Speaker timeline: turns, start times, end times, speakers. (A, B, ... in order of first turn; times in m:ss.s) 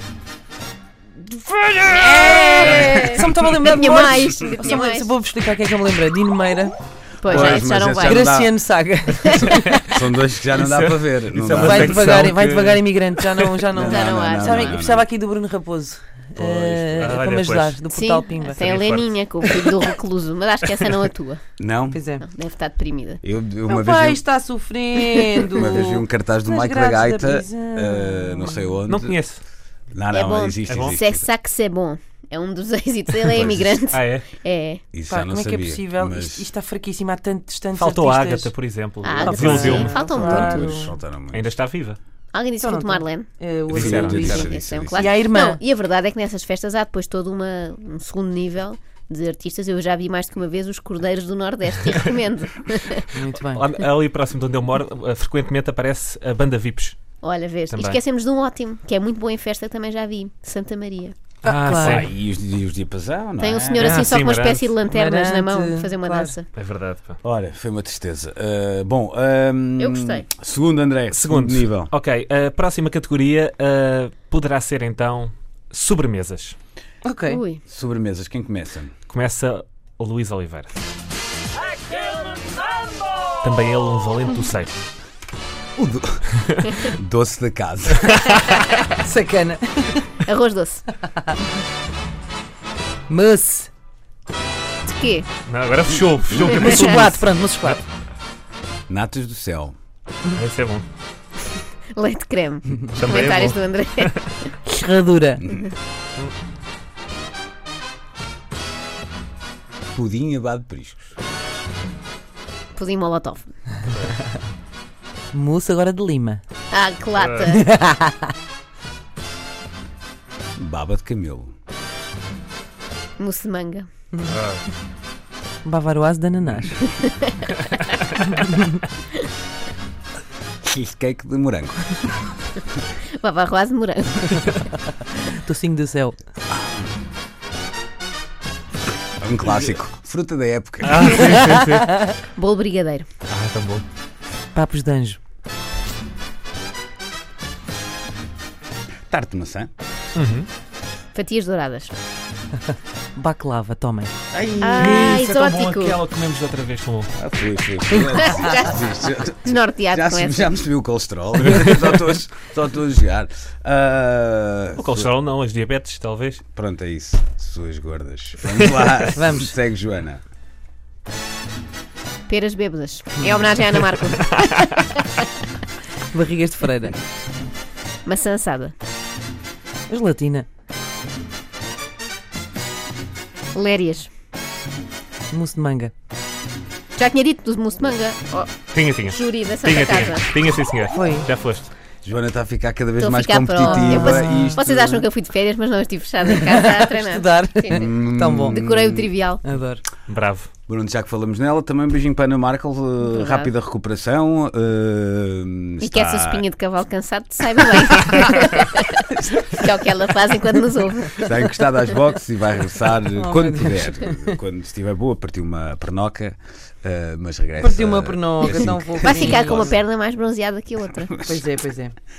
0:01.8-0:06.8 A
0:01.9-0:05.1 B
0:02.6-0:03.0 C
0:07.2-0:08.3 B
0:07.2-0:08.6 D
0:07.3-0:09.7 A
0:09.2-0:09.5 B
0:09.3-0:13.5 C
0:09.4-0:12.1 D
0:11.6-0:18.6 A
0:13.8-0:15.1 D
0:13.8-0:14.8 B
0:16.4-0:17.2 D
0:17.0-0:17.8 C
0:17.9-0:21.4 B
0:18.5-0:19.5 C
0:21.6-0:22.0 D
0:21.9-0:22.2 A
0:22.2-0:23.2 B
0:23.2-0:24.2 D
0:23.7-0:28.8 A
0:25.5-0:29.2 D
0:28.9-0:29.4 C
0:29.9-0:31.3 D
0:30.1-0:34.8 B
0:30.7-0:31.0 C
0:33.3-0:33.8 D
0:33.9-0:34.3 C
0:34.9-0:36.5 D
0:35.1-0:38.5 A
0:37.8-0:40.0 C
0:39.0-0:40.9 B
0:39.1-0:40.9 A
0:39.5-0:41.5 D
0:41.3-0:42.0 C
0:42.3-0:43.3 B
0:42.6-0:45.6 A
0:43.7-0:45.1 D
0:43.7-0:44.5 C
0:44.2-0:53.1 B
0:53.1-0:53.7 A
0:53.5-0:57.0 C
0:57.2-1:01.1 B
0:57.7-0:58.0 C
1:01.4-1:02.1 A
1:01.4-1:02.1 C
1:01.8-1:04.1 D
1:03.4-1:06.5 B
1:03.7-1:04.7 C
1:04.8-1:06.3 A
1:06.5-1:07.2 C
1:07.2-1:11.9 D
1:09.8-1:10.2 B
1:11.1-1:16.6 C
1:17.0-1:17.4 A
1:17.3-1:17.6 B
1:17.7-1:18.9 D
1:19.1-1:20.7 C
1:23.4-1:24.8 C
1:25.8-1:28.3 D
1:28.1-1:28.8 C
1:29.0-1:30.2 A
1:30.2-1:30.8 B
1:33.1-1:33.7 A
1:34.9-1:35.3 B
1:35.5-1:37.8 C
1:36.4-1:37.8 A
1:36.5-1:37.0 B
1:38.9-1:39.8 D
1:40.3-1:40.8 C
1:41.9-1:44.5 B
1:42.9-1:44.3 C
1:44.7-1:45.5 A
1:49.9-1:51.1 D
1:52.8-1:53.5 B
1:53.9-1:54.2 C
1:55.3-1:56.4 A
1:56.7-1:57.6 B
1:57.2-1:57.5 C
1:57.5-1:58.3 A
2:00.6-2:01.5 D
2:03.2-2:03.9 B
2:04.2-2:04.6 C
2:05.6-2:06.9 A
2:06.9-2:07.5 B
2:08.3-2:08.8 A
2:10.6-2:12.3 D
2:13.2-2:14.7 B
2:15.2-2:16.2 A
2:16.5-2:16.8 D
2:19.2-2:21.4 D
2:20.8-2:22.0 C
2:22.4-2:23.1 B
2:23.3-2:23.8 C
2:24.5-2:25.2 A
2:29.1-2:29.7 D
2:30.1-2:30.5 C
2:31.1-2:31.9 B
2:33.1-2:34.1 A
2:34.3-2:35.0 D
2:34.6-2:36.0 B
2:34.8-2:37.1 C
2:37.2-2:45.1 D
2:38.0-2:38.4 A
2:38.1-2:38.8 B
2:39.4-2:40.5 B
2:41.5-2:41.8 C
2:44.8-2:46.4 C
2:46.5-2:50.2 D
2:49.1-2:49.5 A
2:52.3-2:55.2 B
2:56.1-2:57.0 A
2:58.1-2:58.7 B
2:59.9-3:00.4 A
3:03.5-3:04.1 B
3:05.3-3:05.9 A
3:07.0-3:10.3 B
3:08.7-3:11.7 C
3:10.9-3:11.3 A
3:12.0-3:15.0 D
3:13.0-3:17.9 B
3:13.6-3:14.6 A
3:16.2-3:18.6 A
3:17.7-3:19.1 D
3:18.4-3:19.4 B
3:19.4-3:19.8 A
3:20.1-3:20.5 C
3:20.7-3:26.4 D
3:23.0-3:23.5 B
3:25.8-3:31.3 B
3:31.2-3:39.7 D
3:33.1-3:34.4 A
3:37.6-3:39.7 A
3:38.4-3:41.1 B
3:41.2-3:41.9 A